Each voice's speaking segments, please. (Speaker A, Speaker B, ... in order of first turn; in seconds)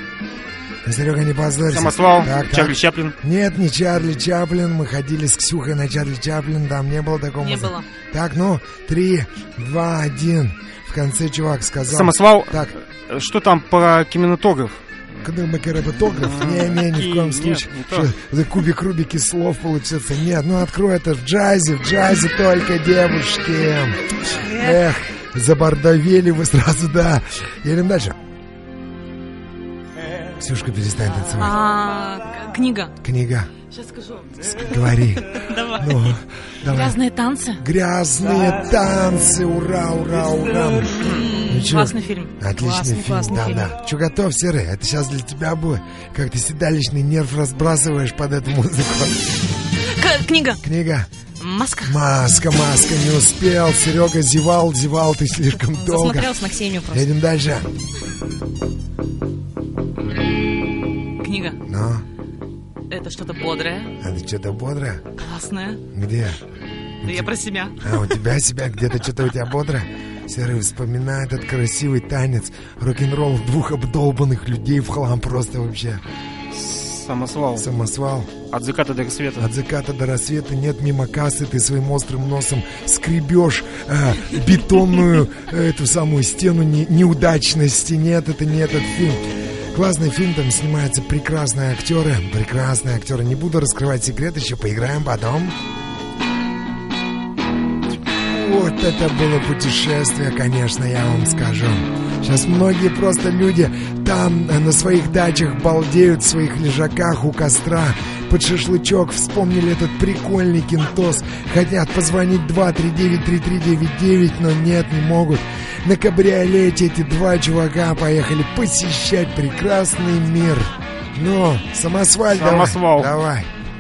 Speaker A: 0.8-12.7, 15.2-28.2, 30.4-31.6, 33.0-33.5, 34.4-37.0, 37.6-49.3, 50.6-51.1, 51.8-56.4, 56.9-57.7, 61.6-62.0, 64.0-65.0, 65.9-66.4, 67.0-76.0, 77.6-78.3, 79.4-95.6, 98.1-123.5
Speaker B: 1.7-3.1, 11.8-14.8, 16.1-18.1, 76.5-77.7, 78.4-79.5, 122.4-123.1
Speaker C: 7.4-7.9, 31.3-32.9, 33.7-34.4, 36.7-37.6, 41.1-42.3, 49.9-50.6, 51.4-52.0, 61.2-61.6, 62.9-63.9, 65.2-65.8, 67.0-67.8
Speaker D: 35.3-36.1, 41.0-41.8, 42.5-43.7, 55.8-57.1